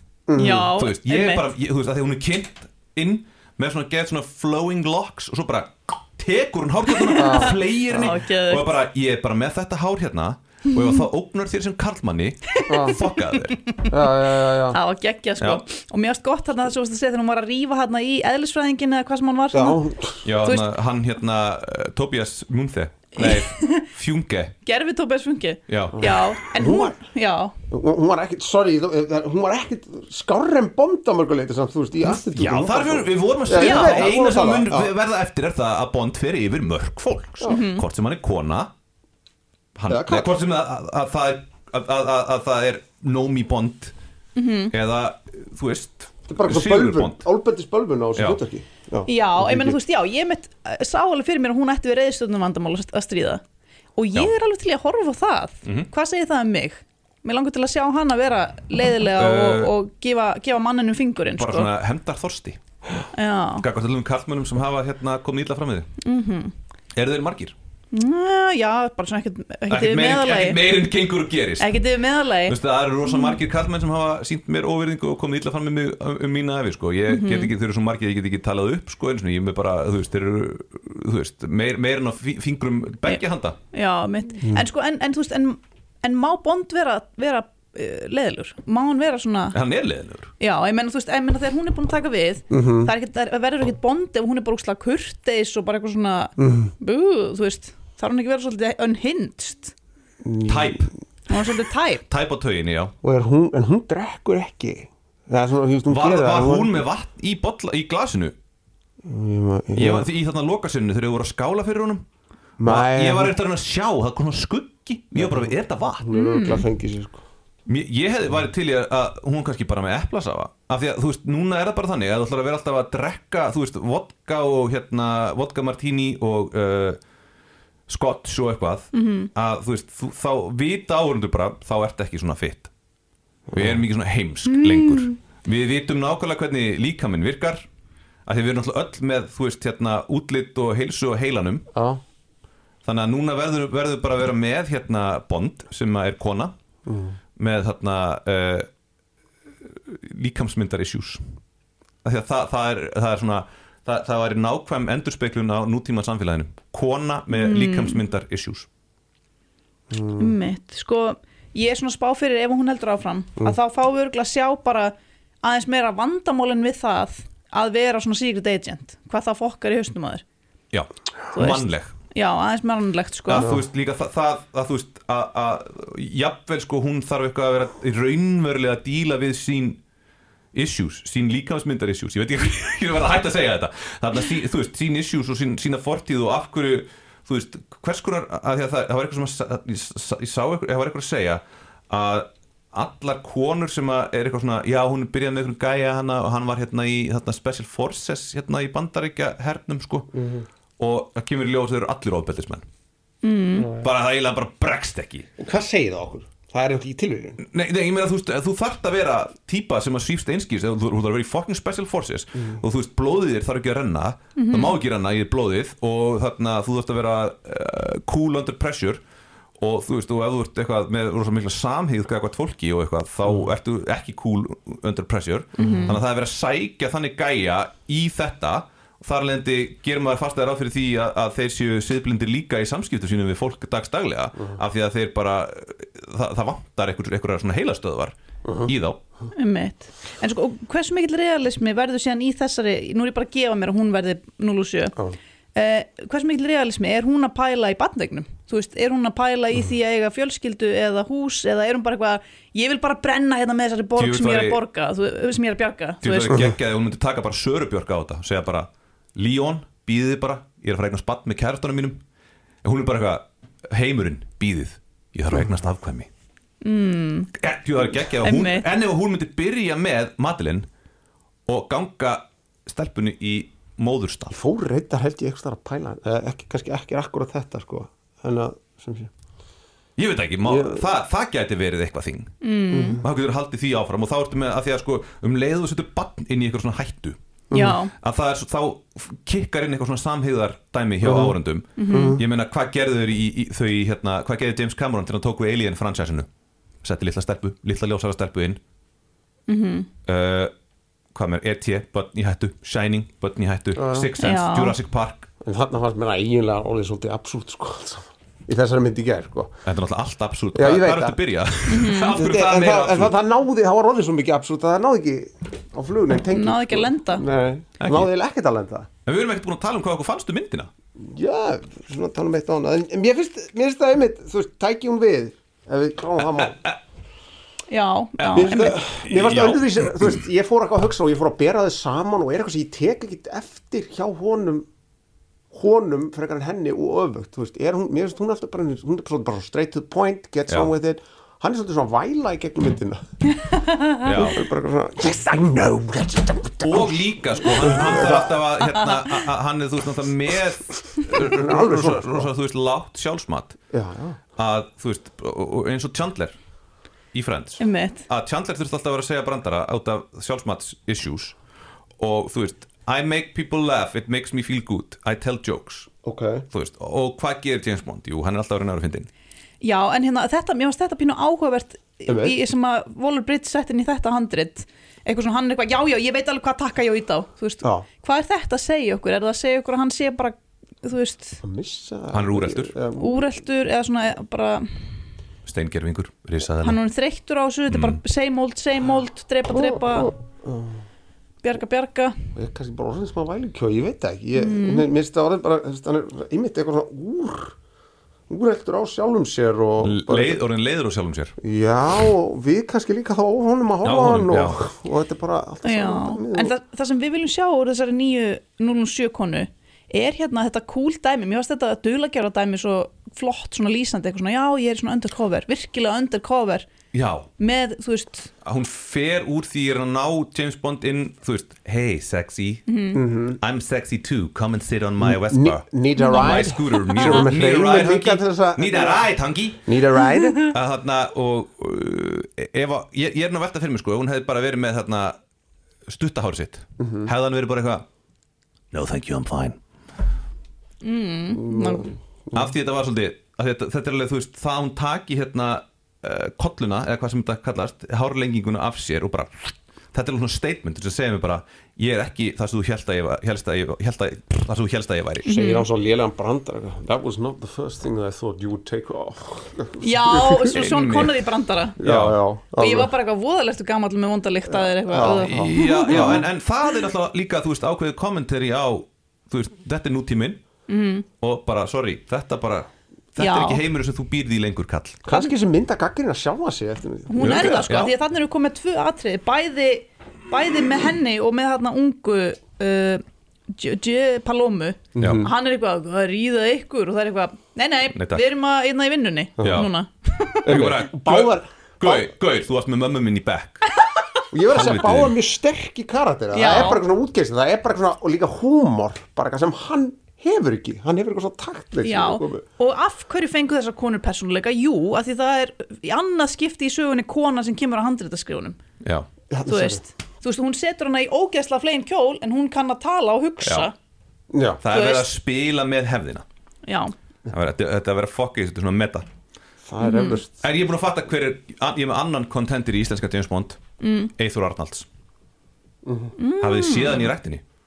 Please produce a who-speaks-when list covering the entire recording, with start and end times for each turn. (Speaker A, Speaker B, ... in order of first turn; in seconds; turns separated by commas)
Speaker A: 0.3-0.7, Speaker B: 0.3-1.4, Speaker C: 0.5-13.6, Speaker B: 7.0-8.7, Speaker A: 7.2-8.1, Speaker B: 12.6-19.8, Speaker A: 12.7-13.0, Speaker A: 13.9-14.8, Speaker C: 15.4-15.6, Speaker A: 19.5-20.2, Speaker C: 20.2-24.5, Speaker B: 20.4-20.7, Speaker B: 23.2-23.9, Speaker B: 24.6-27.5, Speaker C: 25.7-26.2, Speaker A: 26.0-27.0, Speaker A: 27.7-34.9, Speaker C: 32.1-38.7, Speaker B: 33.5-34.0, Speaker B: 37.5-37.8, Speaker C: 39.8-43.9, Speaker A: 39.9-40.3, Speaker B: 44.4-44.7, Speaker C: 44.7-47.2, Speaker A: 46.3-49.8, Speaker B: 49.0-53.4, Speaker B: 54.0-61.7, Speaker C: 59.2-59.7, Speaker C: 61.4-62.6, Speaker B: 63.1-63.6, Speaker C: 63.6-65.9, Speaker B: 66.0-66.5, Speaker C: 66.9-67.5, Speaker B: 67.9-70.8, Speaker C: 69.7-71.8, Speaker B: 71.6-73.4, Speaker C: 72.4-83.6, Speaker B: 77.1-77.5, Speaker B: 83.7-89.6, Speaker A: 84.4-84.7, Speaker C: 89.5-90.3, Speaker B: 90.4-99.7, Speaker A: 92.5-92.9, Speaker A: 96.4-96.7, Speaker A: 100.2-100.9, Speaker C: 100.5-100.9, Speaker B: 101.3-102.0, Speaker C: 102.1-102.9, Speaker A: 103.0-106.8, Speaker C: 105.9-108.3, Speaker A: 109.0-110.1, Speaker C: 109.7-112.0, Speaker A: 112.6-113.3, Speaker C: 112.6-116.0, Speaker A: 115.1-117.2, Speaker B: 116.1-116.7, Speaker C: 117.7-127.0, Speaker C: 127.9-132.7, Speaker B: 128.9-129.3, Speaker A: 133.5-133.8, Speaker C: 133.5-137.6, Speaker B: 134.5-135.1, Speaker C: 138.2-141.7, Speaker A: 141.7-142.0, Speaker C: 142.8-146.5, Speaker A: 146.8-147.2, Speaker C: 147.3-148.7, Speaker C: 149.7-151.3, Speaker C: 152.0-158.7, Speaker B: 157.4-158.0, Speaker A: 159.9-160.3, Speaker B: 160.2-170.2, Speaker C: 170.7-171.9, Speaker B: 171.3-173.5, Speaker C: 173.3-179.8, Speaker A: 173.3-173.6, Speaker C: 180.5-200.1, Speaker A: 200.1-200.5, Speaker C: 200.8-202.7, Speaker B: 203.2-203.7, Speaker A: 203.6-203.9, Speaker C: 203.8-205.3, Speaker A: 205.4-207.4, Speaker C: 207.4-219.0, Speaker B: 214.3-214.7, Speaker C: 219.6-239.0, Speaker A: 225.6-226.0, Speaker B: 225.6-225.9, Speaker A: 238.4-238.7, Speaker B: 239.3-244.9, Speaker B: 245.5-256.5, Speaker C: 253.9-254.6, Speaker C: 256.0-262.0, Speaker C: 262.6-266.1, Speaker B: 266.6-267.3, Speaker C: 267.3-270.7, Speaker B: 268.2-268.7, Speaker C: 271.5-274.4, Speaker A: 274.3-279.1, Speaker C: 280.0-282.3, Speaker A: 280.4-280.9, Speaker B: 282.4-283.0, Speaker A: 282.7-283.0, Speaker C: 283.0-287.2, Speaker A: 287.5-287.8, Speaker B: 287.5-287.9, Speaker C: 288.0-296.3, Speaker A: 291.0-291.4, Speaker B: 291.8-292.2, Speaker A: 291.9-292.2, Speaker C: 296.8-298.6, Speaker B: 299.5-299.9, Speaker C: 300.1-300.5, Speaker C: 301.1-305.3, Speaker A: 303.8-304.1, Speaker B: 304.2-304.8, Speaker A: 305.4-309.6, Speaker C: 309.6-313.1, Speaker A: 310.5-311.2, Speaker B: 311.7-312.2, Speaker A: 312.1-318.9, Speaker B: 316.3-317.2, Speaker C: 317.8-318.1, Speaker C: 319.0-320.7, Speaker A: 321.0-326.6, Speaker C: 326.2-326.8, Speaker B: 327.7-328.8, Speaker C: 328.2-330.2, Speaker A: 328.3-334.7, Speaker A: 335.5-343.3, Speaker B: 343.4-343.9, Speaker C: 344.0-344.4, Speaker A: 344.1-348.4, Speaker C: 346.6-353.6, Speaker A: 351.1-352.3, Speaker A: 353.7-354.2, Speaker C: 354.4-356.4, Speaker C: 357.1-361.4, Speaker B: 357.6-358.1, Speaker C: 362.0-365.9, Speaker A: 366.0-366.4, Speaker C: 366.5-369.1, Speaker B: 369.6-381.4, Speaker A: 372.1-372.4, Speaker A: 381.4-383.2, Speaker C: 382.1-382.7, Speaker B: 383.0-384.9, Speaker C: 385.4-386.8, Speaker B: 386.6-390.1, Speaker C: 387.7-388.0, Speaker A: 389.5-390.8, Speaker B: 391.4-392.2, Speaker A: 392.3-397.6, Speaker B: 394.4-394.9, Speaker A: 398.3-400.4, Speaker C: 399.8-401.4, Speaker A: 401.4-406.5, Speaker C: 403.8-404.6, Speaker B: 405.6-416.6, Speaker C: 416.9-417.3, Speaker B: 417.4-418.3, Speaker C: 418.4-422.6, Speaker B: 422.7-423.0, Speaker A: 422.9-423.4, Speaker C: 423.4-429.7, Speaker A: 425.0-429.0, Speaker B: 426.0-426.5, Speaker A: 429.6-430.5, Speaker B: 430.1-430.4, Speaker C: 430.4-435.2, Speaker C: 435.9-437.9, Speaker A: 436.8-437.1, Speaker C: 438.7-439.6, Speaker B: 440.8-441.9, Speaker A: 441.3-442.5, Speaker C: 442.3-455.3, Speaker B: 455.2-455.6, Speaker A: 455.2-460.6, Speaker B: 459.8-461.8, Speaker C: 460.5-461.2, Speaker C: 461.8-462.2, Speaker A: 461.8-462.9, Speaker B: 462.6-466.2, Speaker A: 464.4-466.2, Speaker C: 465.2-470.4, Speaker B: 470.7-471.1, Speaker C: 471.2-475.0, Speaker B: 473.2-473.6, Speaker A: 475.0-477.6, Speaker B: 477.1-490.4, Speaker C: 477.2-477.9, Speaker A: 484.9-485.3, Speaker C: 485.0-485.2, Speaker C: 487.9-488.2, Speaker A: 489.4-489.7, Speaker C: 489.4-489.7, Speaker C: 490.4-493.7, Speaker A: 490.4-492.1, Speaker A: 494.3-502.4, Speaker C: 494.4-495.1, Speaker B: 496.3-496.8, Speaker B: 501.8-508.6, Speaker C: 508.8-509.1, Speaker A: 509.3-509.8, Speaker B: 509.5-513.7, Speaker C: 513.4-513.7, Speaker A: 514.3-514.6, Speaker C: 514.6-516.2, Speaker B: 514.7-515.1, Speaker B: 516.6-516.9, Speaker C: 517.3-519.1, Speaker A: 519.6-520.4, Speaker B: 519.8-520.2, Speaker C: 520.4-523.6, Speaker B: 523.8-524.1, Speaker C: 524.1-524.9, Speaker A: 525.8-526.1, Speaker B: 526.2-527.1, Speaker C: 526.4-527.4